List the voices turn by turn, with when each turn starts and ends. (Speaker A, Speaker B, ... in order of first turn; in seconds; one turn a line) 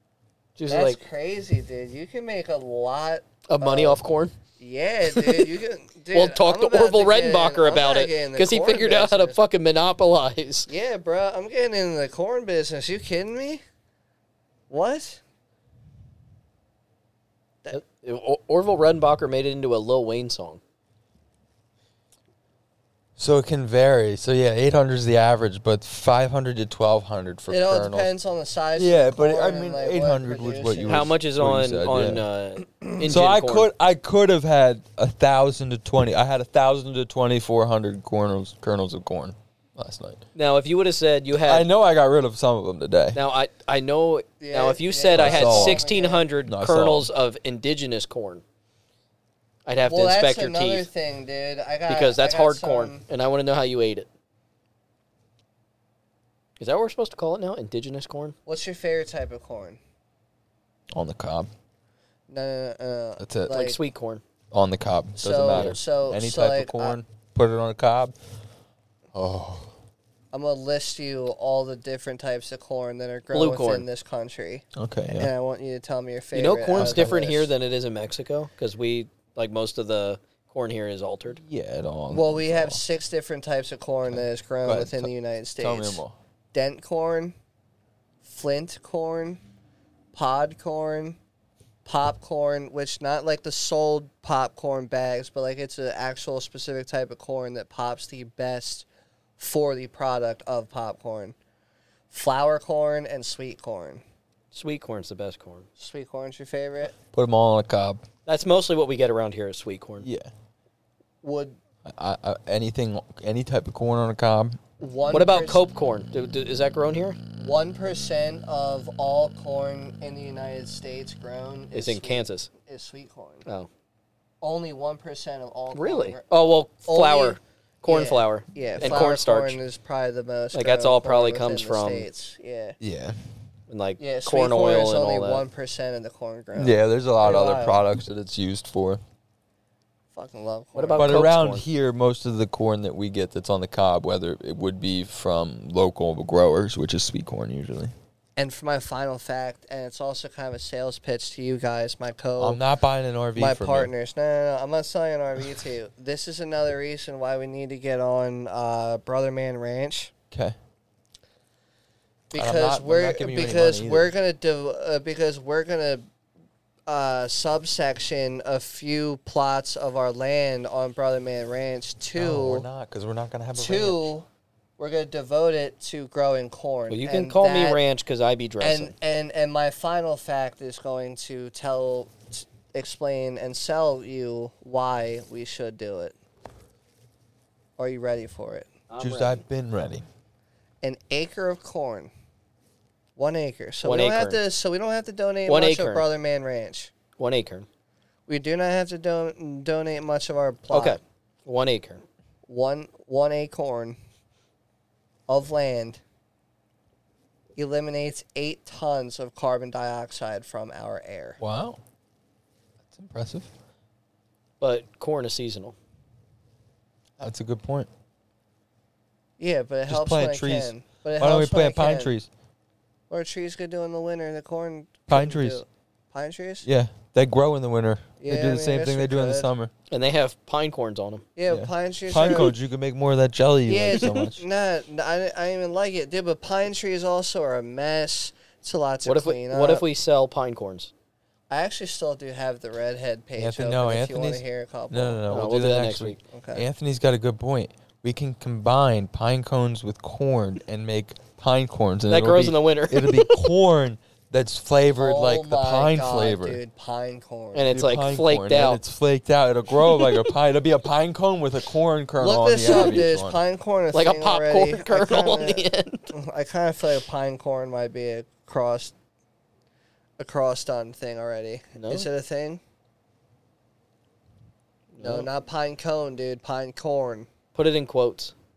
Speaker A: 0.6-1.0
Speaker B: 0.7-4.0
Speaker A: 3.5-4.3
Speaker B: 4.6-9.4
Speaker A: 5.1-5.5
Speaker A: 6.1-10.7
Speaker B: 10.7-13.6
Speaker B: 14.7-15.2
Speaker A: 17.7-20.6
Speaker C: 23.2-28.1
Speaker B: 27.5-31.1
Speaker C: 28.8-32.2
Speaker A: 30.9-33.7
Speaker C: 33.0-40.2
Speaker A: 40.3-41.7
Speaker C: 41.4-43.2
Speaker A: 43.1-48.4
Speaker B: 44.4-46.2
Speaker C: 45.1-45.8
Speaker C: 46.5-47.1
Speaker A: 49.6-50.9
Speaker B: 49.9-53.0
Speaker A: 51.9-54.1
Speaker A: 56.6-58.3
Speaker B: 58.5-59.8
Speaker C: 60.9-61.5
Speaker B: 62.3-63.8
Speaker C: 63.2-63.5
Speaker A: 63.5-64.2
Speaker C: 64.5-68.1
Speaker B: 65.2-67.0
Speaker A: 65.5-65.8
Speaker C: 69.1-69.7
Speaker B: 70.3-77.5
Speaker A: 73.3-73.8
Speaker C: 74.7-75.3
Speaker A: 76.3-81.4
Speaker C: 76.7-77.2
Speaker C: 81.3-82.8
Speaker B: 82.1-86.0
Speaker C: 84.1-86.2
Speaker B: 86.5-87.3
Speaker B: 88.2-89.4
Speaker B: 90.1-91.2
Speaker B: 91.8-98.8
Speaker B: 99.4-101.3
Speaker B: 102.1-104.0
Speaker A: 104.5-105.7
Speaker B: 105.8-107.0
Speaker C: 107.1-108.0
Speaker A: 108.2-110.1
Speaker C: 110.0-110.3
Speaker B: 111.2-111.6
Speaker C: 111.8-114.6
Speaker B: 114.8-115.6
Speaker A: 115.1-117.2
Speaker B: 117.4-123.4
Speaker A: 121.7-122.5
Speaker B: 124.4-132.8
Speaker A: 125.7-129.6
Speaker C: 128.8-129.1
Speaker A: 130.5-132.1
Speaker C: 132.8-133.2
Speaker A: 133.7-135.4
Speaker B: 134.0-137.8
Speaker C: 136.5-139.0
Speaker B: 140.1-141.2
Speaker A: 140.7-141.6
Speaker C: 141.0-147.9
Speaker B: 148.3-152.6
Speaker C: 152.4-153.9
Speaker B: 153.3-160.1
Speaker C: 160.3-160.6
Speaker B: 162.3-166.1
Speaker C: 162.3-164.1
Speaker B: 166.9-172.7
Speaker C: 172.2-174.1
Speaker B: 173.6-174.2
Speaker B: 174.8-177.8
Speaker A: 176.9-178.9
Speaker B: 178.6-186.1
Speaker B: 187.8-188.7
Speaker A: 188.9-189.4
Speaker C: 189.0-190.0
Speaker B: 190.8-192.1
Speaker B: 193.2-196.9
Speaker A: 193.8-194.4
Speaker A: 195.5-196.1
Speaker A: 197.2-197.7
Speaker B: 198.3-201.0
Speaker A: 200.7-202.0
Speaker B: 202.5-204.0
Speaker B: 205.3-206.0
Speaker B: 207.6-211.4
Speaker C: 211.4-211.8
Speaker C: 212.8-213.5
Speaker A: 214.6-215.8
Speaker C: 217.2-217.9
Speaker B: 219.4-222.1
Speaker C: 219.9-222.3
Speaker B: 223.1-226.7
Speaker C: 225.1-225.6
Speaker C: 226.6-229.7
Speaker B: 228.2-229.5
Speaker A: 229.9-231.2
Speaker B: 231.3-232.5
Speaker C: 231.5-234.4
Speaker B: 233.7-239.8
Speaker A: 239.0-240.9
Speaker B: 241.5-245.2
Speaker C: 243.4-256.6
Speaker A: 245.3-246.2
Speaker B: 246.3-246.6
Speaker A: 252.1-253.3
Speaker B: 255.0-257.7
Speaker A: 257.5-258.8
Speaker C: 257.7-263.4
Speaker A: 259.9-260.2
Speaker B: 262.2-268.9
Speaker A: 262.7-263.0
Speaker A: 263.9-266.1
Speaker B: 270.2-272.6
Speaker A: 271.8-272.1
Speaker A: 274.9-275.3
Speaker B: 275.0-277.3
Speaker A: 277.5-278.3